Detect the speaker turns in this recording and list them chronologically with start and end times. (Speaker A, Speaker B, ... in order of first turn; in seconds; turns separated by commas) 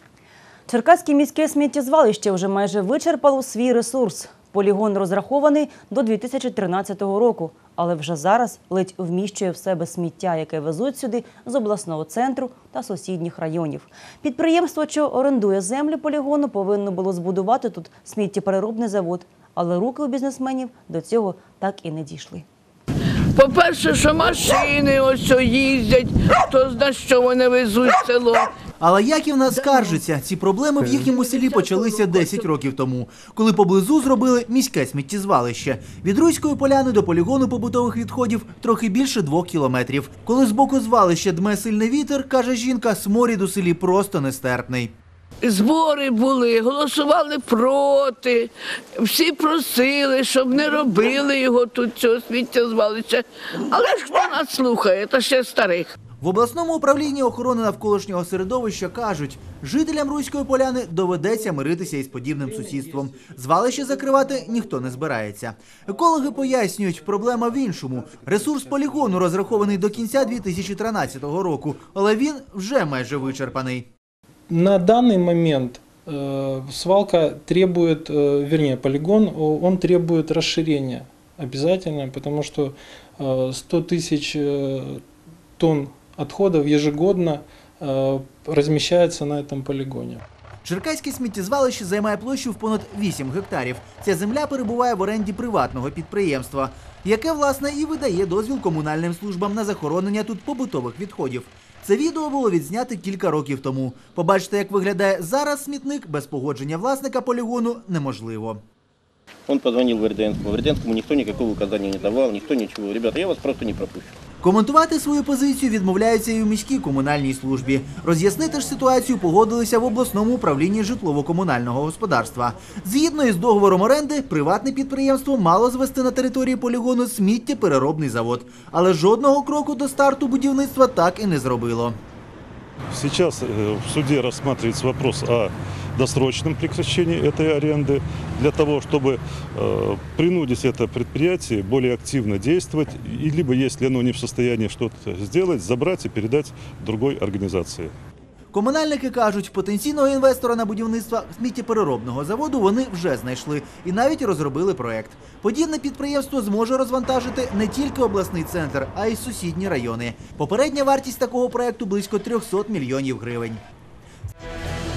Speaker A: 0.7-22.4, Speaker B: 23.4-28.4, Speaker C: 28.8-44.9, Speaker B: 45.4-55.9, Speaker C: 56.2-73.9, Speaker D: 74.5-85.0, Speaker D: 85.6-90.2, Speaker C: 90.7-108.6, Speaker E: 109.5-114.1, Speaker C: 114.4-132.0, Speaker F: 132.9-147.9, Speaker C: 148.5-163.6